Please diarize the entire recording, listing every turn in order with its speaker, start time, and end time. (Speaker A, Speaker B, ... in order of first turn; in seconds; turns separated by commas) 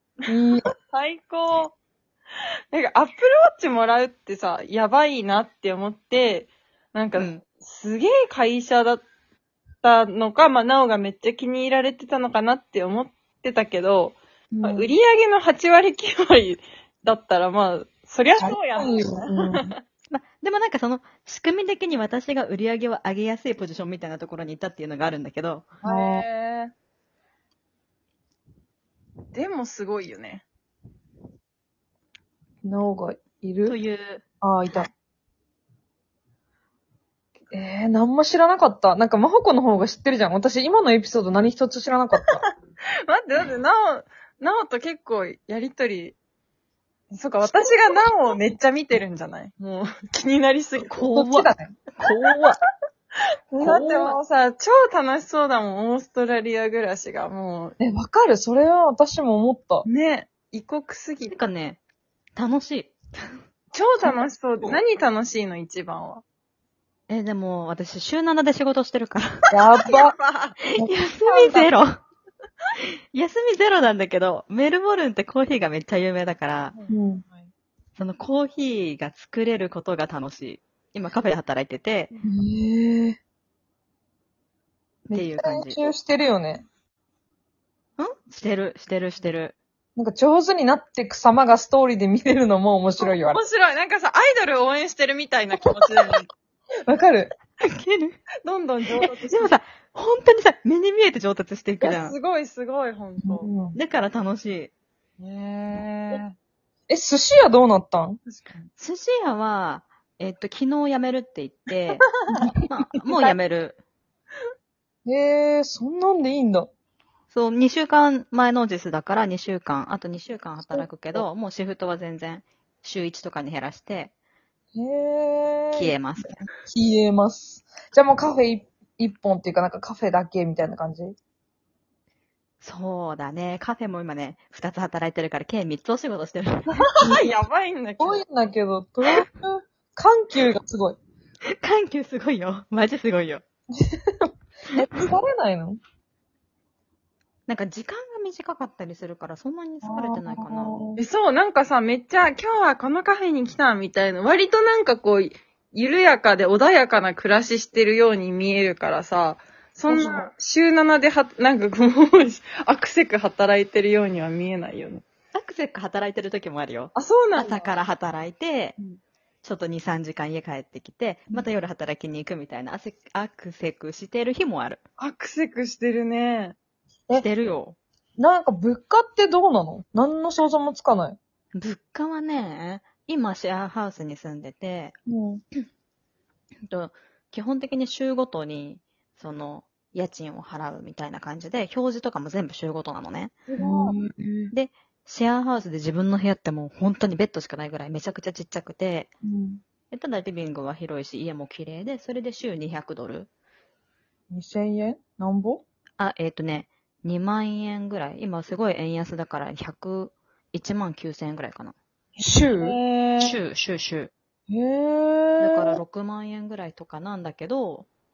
Speaker A: 0.3-0.7, Speaker B: 0.9-1.7, Speaker B: 2.7-9.0, Speaker C: 7.2-7.4, Speaker B: 9.8-19.8, Speaker A: 14.5-14.9, Speaker A: 18.4-19.7, Speaker C: 20.1-25.7, Speaker B: 25.8-26.7, Speaker A: 25.8-26.2, Speaker B: 29.3-30.4, Speaker A: 32.6-33.8, Speaker C: 33.6-34.2, Speaker A: 34.4-34.9, Speaker A: 37.5-42.4, Speaker B: 43.0-46.2, Speaker B: 47.1-51.0, Speaker C: 50.9-52.6, Speaker A: 51.1-51.7, Speaker A: 53.5-54.2, Speaker B: 53.6-57.8, Speaker A: 57.8-59.9, Speaker B: 59.9-61.4, Speaker C: 61.3-61.8, Speaker C: 62.4-63.0, Speaker B: 63.7-66.2, Speaker C: 67.1-69.5, Speaker A: 69.5-70.1, Speaker B: 69.9-70.6, Speaker C: 70.7-72.0, Speaker B: 71.2-71.7, Speaker C: 73.1-76.7, Speaker B: 76.7-77.5, Speaker A: 76.9-77.2, Speaker C: 78.0-82.1, Speaker A: 82.2-83.2, Speaker C: 85.1-85.8, Speaker A: 85.1-86.6, Speaker C: 88.0-89.5, Speaker A: 90.0-93.4, Speaker B: 93.0-96.3, Speaker A: 96.9-97.3, Speaker C: 97.6-98.2, Speaker B: 98.4-99.5, Speaker C: 99.0-102.2, Speaker B: 101.8-103.5, Speaker A: 103.2-103.8, Speaker C: 103.7-104.7, Speaker B: 105.2-106.3, Speaker A: 106.9-108.2, Speaker B: 108.3-108.7, Speaker C: 108.8-112.1, Speaker B: 112.0-112.5, Speaker C: 112.6-113.8, Speaker A: 115.0-116.7, Speaker C: 117.3-124.1, Speaker A: 120.7-121.2, Speaker A: 124.7-125.9, Speaker C: 125.7-126.5, Speaker A: 126.7-131.1, Speaker C: 132.6-137.1, Speaker B: 137.0-138.2, Speaker A: 138.0-141.0, Speaker C: 141.6-143.4, Speaker A: 143.8-145.8, Speaker C: 147.5-150.8, Speaker A: 149.8-151.0, Speaker B: 150.9-165.0, Speaker A: 159.9-160.3, Speaker C: 165.3-168.8, Speaker B: 166.9-167.7, Speaker C: 169.4-174.8, Speaker B: 175.0-176.6, Speaker C: 177.2-177.8, Speaker A: 178.2-181.2, Speaker C: 181.5-184.9, Speaker A: 185.1-185.4, Speaker C: 186.7-193.3, Speaker B: 193.5-194.0, Speaker A: 193.6-194.5, Speaker C: 194.5-199.1, Speaker A: 199.2-199.6, Speaker C: 199.9-203.3, Speaker A: 204.3-205.6, Speaker C: 206.0-211.7, Speaker A: 212.2-212.8, Speaker B: 212.5-213.4, Speaker C: 213.2-214.1, Speaker A: 214.5-215.8, Speaker C: 215.4-217.9